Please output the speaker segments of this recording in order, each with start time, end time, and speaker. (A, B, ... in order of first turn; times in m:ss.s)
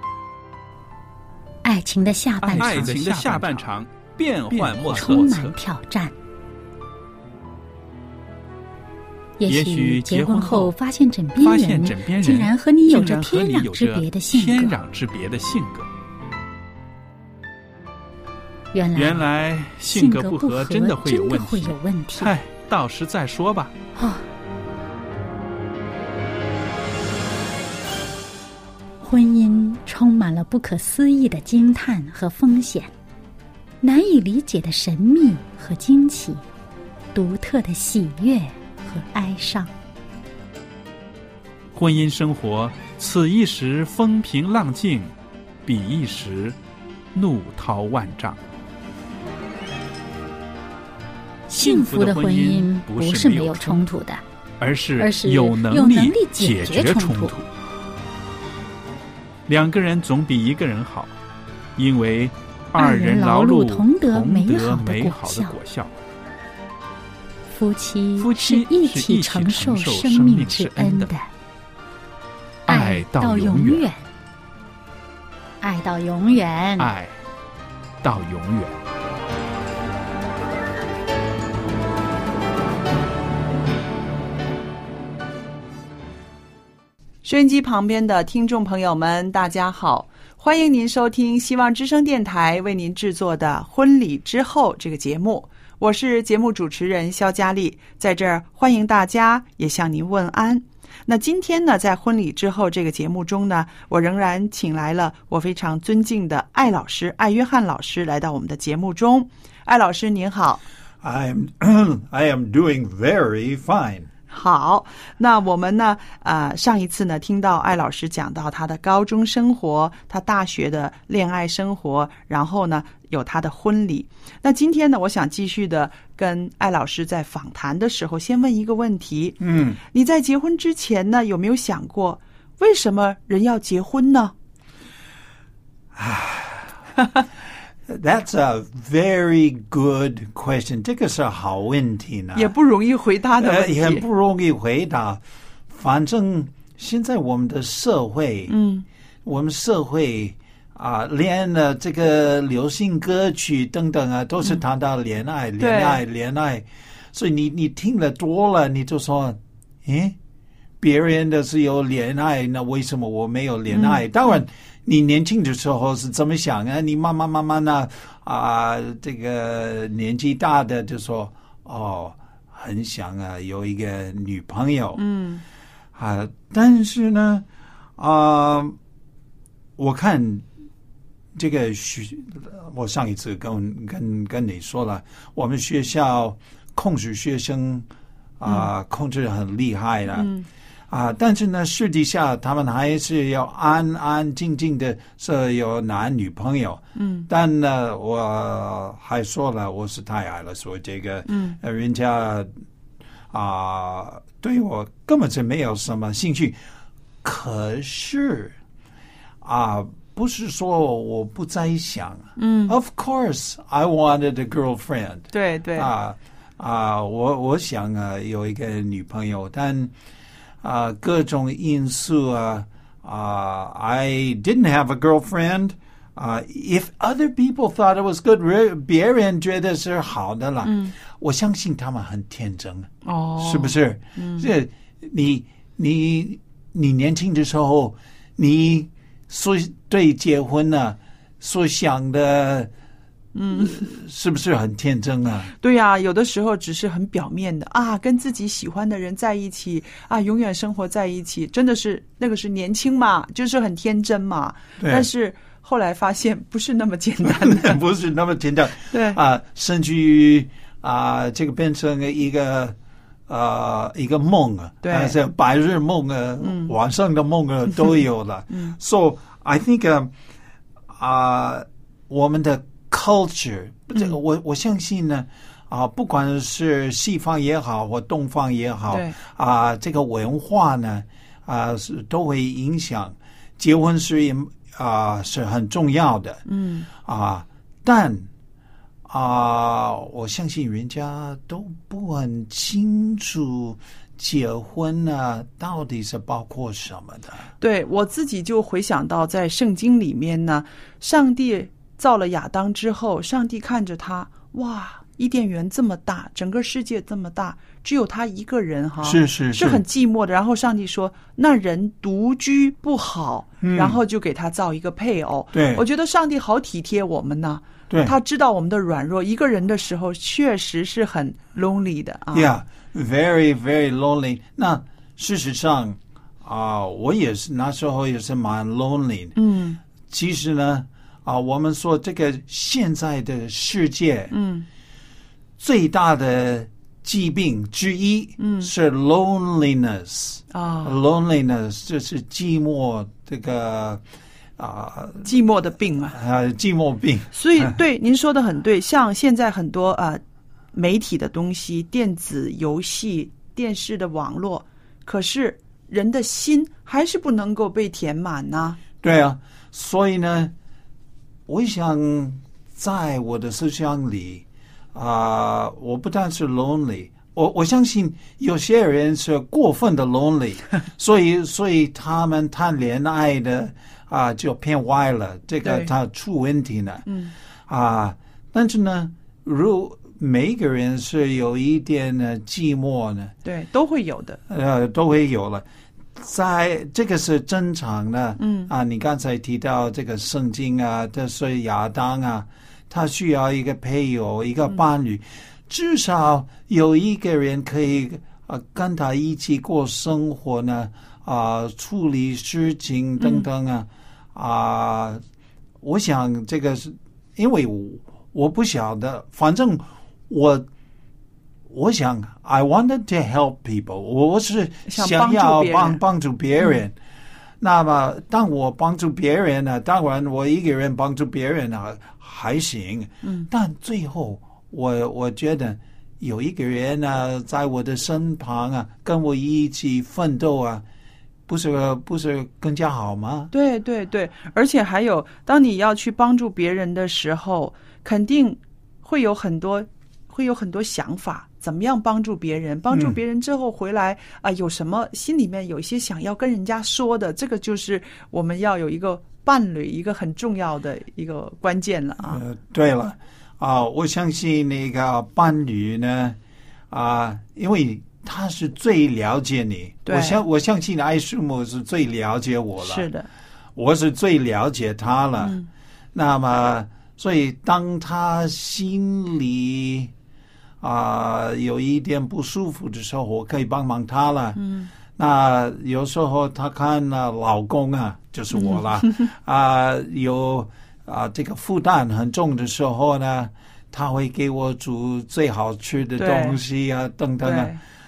0:01.6-0:03.7 A
0:02.4-0:05.6 B
0:04.5-0:06.1 A
0:09.4-0:14.8 A
0:09.5-0:10.7 B
0:11.4-0:15.9 B
0:18.7-0:19.3 A
0:19.0-0:23.7 B
0:19.9-0:22.3 A
0:24.0-0:24.2 A
0:29.0-0:32.9 A
0:33.8-0:36.4 A
0:37.1-0:39.7 A
0:41.8-0:45.1 B
0:45.6-0:46.6 B
0:47.1-0:48.4 B
0:51.5-0:53.8 B
0:51.5-0:54.2 A
0:54.6-0:57.5 B
0:55.0-0:57.4 A
0:59.5-1:01.1 B
1:01.8-1:05.9 B
1:02.8-1:05.6 A
1:07.5-1:11.3 A
1:08.2-1:11.1 B
1:12.7-1:13.9 B
1:12.7-1:14.0 A
1:15.6-1:16.9 A
1:16.8-1:17.2 B
1:18.0-1:18.8 B
1:27.2-1:50.6 C
1:51.0-1:54.1 D
1:54.3-2:14.3 C
2:09.4-2:09.8 D
2:16.0-2:16.8 D
2:17.9-2:22.5 D
2:22.3-2:24.0 C
2:23.4-2:28.5 D
2:28.5-2:28.9 C
2:29.2-2:40.2 D
2:35.6-2:36.0 C
2:40.8-2:55.0 D
2:43.7-2:44.0 C
2:55.0-2:55.4 C
2:56.0-2:57.5 D
2:58.0-2:58.8 D
2:59.8-3:00.4 D
3:01.3-3:07.9 D
3:08.4-3:10.3 D
3:10.2-3:10.4 C
3:10.9-3:22.5 D
3:17.0-3:17.3 C
3:21.3-3:21.6 C
3:23.3-3:26.6 D
3:27.2-3:28.6 D
3:29.4-3:39.9 D
3:32.4-3:32.8 C
3:35.3-3:35.9 C
3:40.6-4:02.7 D
3:50.6-3:50.9 C
3:53.0-3:54.5 C
4:03.3-4:03.9 C
4:03.6-4:05.5 D
4:05.6-4:17.8 C
4:14.8-4:15.1 D
4:17.2-4:22.8 D
4:18.9-4:19.2 C
4:23.3-4:30.1 D
4:24.8-4:25.2 C
4:26.4-4:26.7 C
4:30.9-4:48.3 D
4:38.9-4:39.2 C
4:46.4-4:46.9 C
4:49.1-4:57.4 D
4:57.6-5:22.5 C
5:09.0-5:09.8 D
5:13.6-5:14.0 D
5:15.5-5:15.8 D
5:22.3-5:29.4 D
5:29.4-5:29.8 C
5:30.0-5:34.3 D
5:34.3-5:34.7 C
5:35.6-5:44.0 D
5:38.4-5:38.7 C
5:40.5-5:41.0 C
5:44.6-5:45.3 D
5:45.2-5:46.2 C
5:46.1-5:47.7 D
5:47.3-5:50.2 C
5:50.7-5:58.8 C
5:59.0-6:00.5 D
6:01.5-6:17.1 D
6:15.6-6:15.9 C
6:17.1-6:17.3 C
6:17.7-6:23.3 D
6:23.4-6:24.4 C
6:24.5-6:45.2 D
6:28.4-6:28.7 C
6:43.2-6:43.4 C
6:45.8-6:50.7 D
6:51.7-6:56.9 D
6:54.9-6:56.0 C
6:57.6-7:10.8 D
7:03.2-7:03.5 C
7:11.5-7:13.5 D
7:13.5-7:32.4 C
7:22.9-7:23.2 D
7:32.3-7:36.4 D
7:36.9-7:43.1 D
7:40.0-7:40.4 C
7:42.8-7:43.3 C
7:43.8-7:45.6 D
7:45.4-7:45.7 C
7:46.1-7:50.1 D
7:50.8-7:54.6 D
7:54.6-7:54.9 C
7:55.2-8:07.8 D
7:58.5-7:59.2 C
8:06.2-8:06.6 C
8:07.4-8:07.8 C